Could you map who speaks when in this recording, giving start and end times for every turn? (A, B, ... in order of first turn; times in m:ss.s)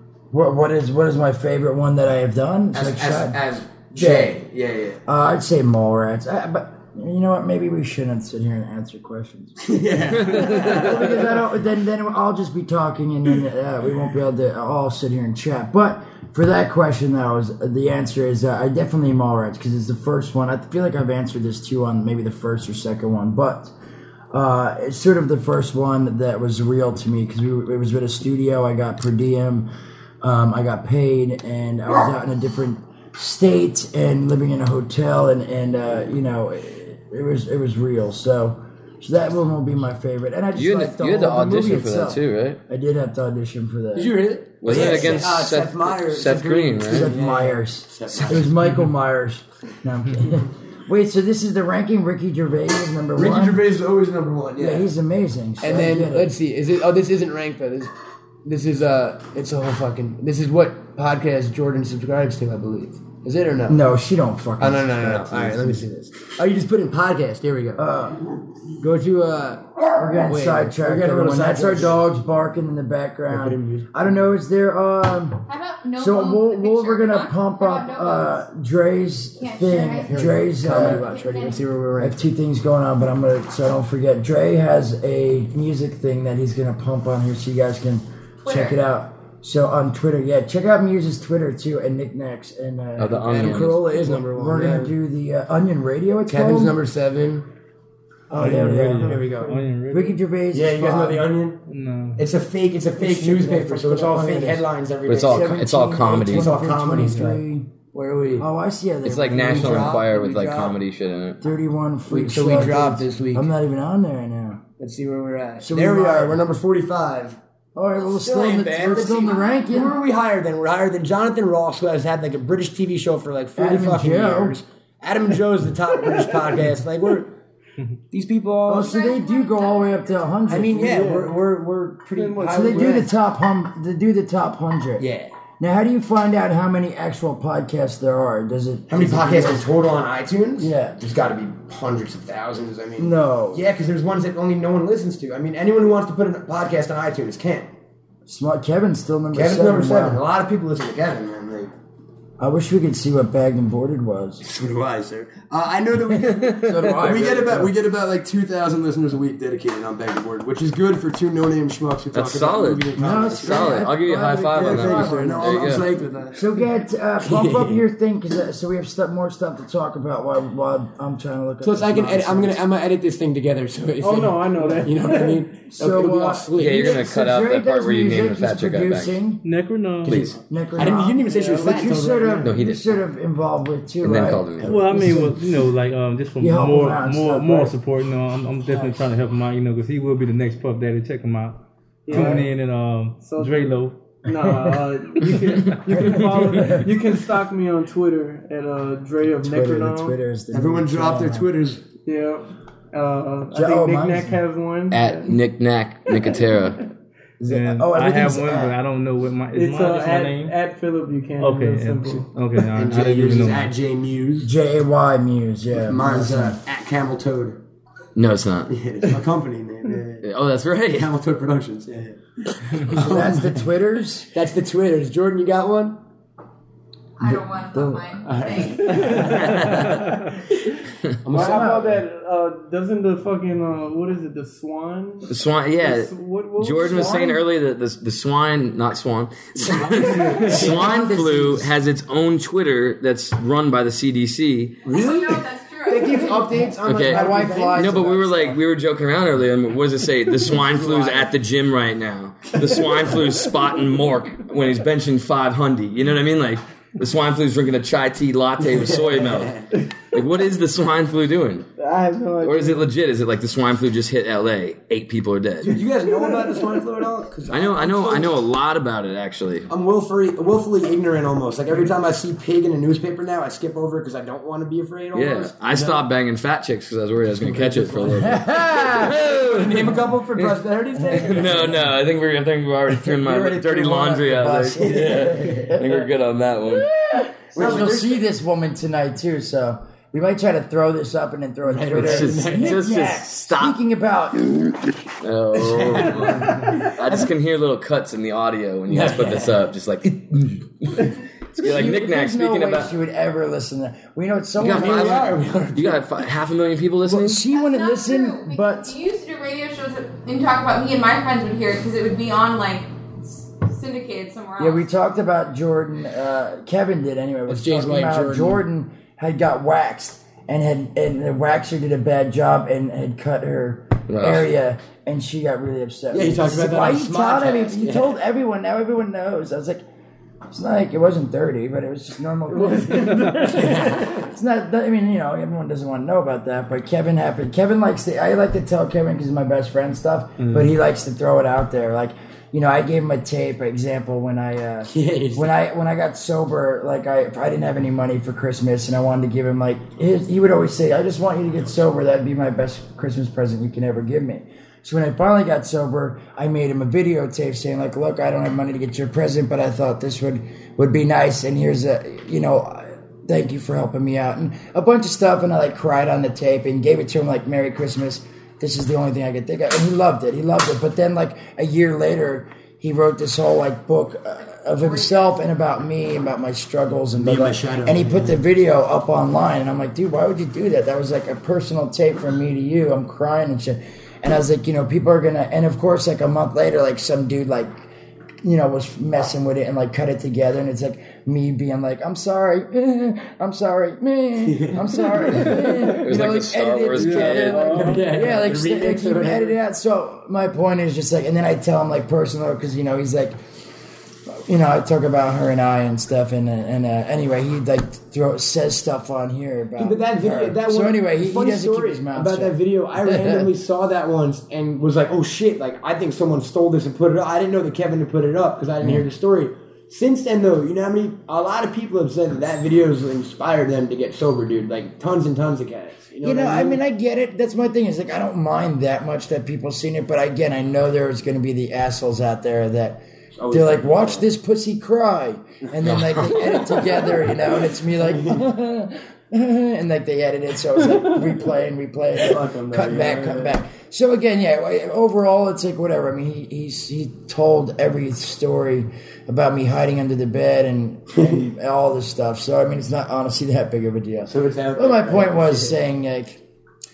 0:00.3-0:03.4 A
0:02.7-0:05.0 B
0:03.9-0:04.4 A
0:05.0-0:23.7 A
0:09.6-0:11.4 B
0:24.3-0:29.7 A
0:30.2-0:44.1 A
0:40.5-0:42.6 C
0:43.9-0:48.5 B
0:44.6-0:47.1 C
0:44.6-0:45.2 A
0:46.8-0:53.6 A
0:53.1-0:54.9 B
0:54.6-0:56.3 A
0:55.6-0:57.9 B
0:58.4-1:03.8 B
1:03.7-1:05.8 A
1:04.6-1:07.8 B
1:07.8-1:08.2 A
1:08.8-1:12.0 B
1:10.0-1:21.1 A
1:13.3-1:13.9 B
1:15.5-1:18.4 D
1:19.4-1:21.6 D
1:20.0-1:22.2 B
1:22.0-1:36.8 A
1:28.4-1:28.8 D
1:33.0-1:33.8 C
1:33.3-1:34.9 B
1:36.3-1:37.5 B
1:38.3-1:39.4 A
1:38.3-1:39.6 B
1:38.4-1:40.2 E
1:39.9-1:41.3 A
1:40.5-1:41.6 B
1:41.7-1:42.3 E
1:42.2-1:48.5 B
1:43.0-1:44.7 A
1:45.1-1:46.6 C
1:45.2-1:47.7 A
1:48.4-1:50.0 A
1:49.0-1:51.4 C
1:49.3-1:50.8 B
1:51.4-1:54.6 A
1:52.1-1:53.5 B
1:54.8-1:57.4 B
1:55.6-1:56.4 A
1:57.7-2:00.0 A
1:57.9-2:07.3 B
1:58.9-1:59.7 D
2:03.6-2:04.6 A
2:08.1-2:09.0 B
2:08.7-2:11.2 A
2:08.7-2:10.3 D
2:10.5-2:13.1 B
2:10.8-2:11.4 F
2:12.1-2:13.1 F
2:12.5-2:15.0 A
2:15.0-2:15.3 B
2:15.6-2:19.6 A
2:18.9-2:27.7 B
2:20.6-2:21.0 A
2:23.0-2:23.6 A
2:28.2-2:30.2 A
2:29.3-2:31.7 B
2:32.4-2:34.4 A
2:34.4-2:43.9 B
2:36.4-2:37.0 C
2:36.6-2:37.7 A
2:42.1-2:45.9 C
2:43.0-2:52.6 A
2:44.6-2:46.5 B
2:47.2-2:47.8 B
2:51.6-2:57.0 B
2:54.0-2:55.4 F
2:55.7-2:59.4 A
2:56.6-2:59.2 C
2:59.4-3:00.2 E
3:00.0-3:00.4 C
3:00.0-3:05.4 A
3:00.7-3:02.6 B
3:01.2-3:02.1 F
3:02.4-3:03.0 C
3:04.0-3:04.9 C
3:04.6-3:14.0 E
3:06.4-3:07.7 A
3:12.0-3:12.5 F
3:12.1-3:12.4 A
3:13.2-3:20.2 F
3:15.7-3:16.8 E
3:16.2-3:16.9 A
3:19.4-3:21.5 A
3:20.5-3:21.8 B
3:22.0-3:25.3 F
3:23.5-3:24.4 A
3:24.9-3:26.8 C
3:26.1-3:26.6 F
3:27.4-3:28.8 A
3:27.5-3:30.6 E
3:29.5-3:32.3 F
3:31.4-3:33.7 E
3:32.7-3:34.5 B
3:34.4-3:36.6 A
3:35.8-3:37.6 B
3:38.2-3:38.8 C
3:38.7-3:40.3 B
3:40.2-3:41.1 C
3:40.9-3:43.6 B
3:42.8-3:44.3 A
3:44.3-3:46.0 B
3:47.2-3:49.2 D
3:47.2-3:48.0 A
3:48.2-3:49.9 B
3:49.3-3:49.9 C
3:51.2-3:52.0 B
3:51.3-3:57.4 F
3:51.3-3:52.0 A
3:55.3-4:04.8 C
3:59.6-4:01.1 B
4:00.0-4:01.7 A
4:04.8-4:08.2 B
4:04.9-4:06.5 D
4:06.2-4:08.5 A
4:06.8-4:19.6 C
4:10.5-4:11.3 B
4:12.8-4:13.1 B
4:18.6-4:19.7 B
4:20.1-4:21.7 C
4:21.8-4:22.9 F
4:22.4-4:25.8 C
4:25.6-4:28.3 B
4:27.5-4:29.7 C
4:29.7-4:36.0 B
4:35.1-4:40.5 C
4:37.3-4:41.9 B
4:38.2-4:39.2 A
4:41.1-4:46.9 C
4:41.2-4:41.6 A
4:43.1-4:44.1 B
4:43.7-4:46.0 A
4:44.8-4:45.7 B
4:46.7-4:54.7 A
4:47.5-4:48.2 B
4:51.6-4:52.9 B
4:51.9-4:53.8 C
4:55.2-5:02.9 C
4:55.5-4:57.3 B
4:58.9-4:59.6 B
5:01.6-5:05.3 A
5:04.6-5:07.4 C
5:04.6-5:06.0 B
5:07.0-5:09.0 A
5:07.5-5:14.8 D
5:14.6-5:29.8 A
5:17.5-5:18.6 B
5:24.1-5:24.5 C
5:26.1-5:28.2 B
5:30.5-6:27.8 A
5:32.5-5:33.7 F
5:33.5-5:34.2 B
5:40.4-5:40.7 E
5:44.9-5:45.5 B
6:17.2-6:18.4 B
6:28.4-6:43.4 A
6:34.4-6:35.5 B
6:35.8-6:37.7 C
6:37.0-6:38.1 E
6:37.2-6:39.6 B
6:44.3-6:53.5 A
6:49.8-7:06.8 B
7:06.2-7:36.4 A
7:13.4-7:14.3 B
7:15.8-7:16.8 C
7:17.6-7:18.4 B
7:22.2-7:23.6 B
7:34.2-7:35.8 B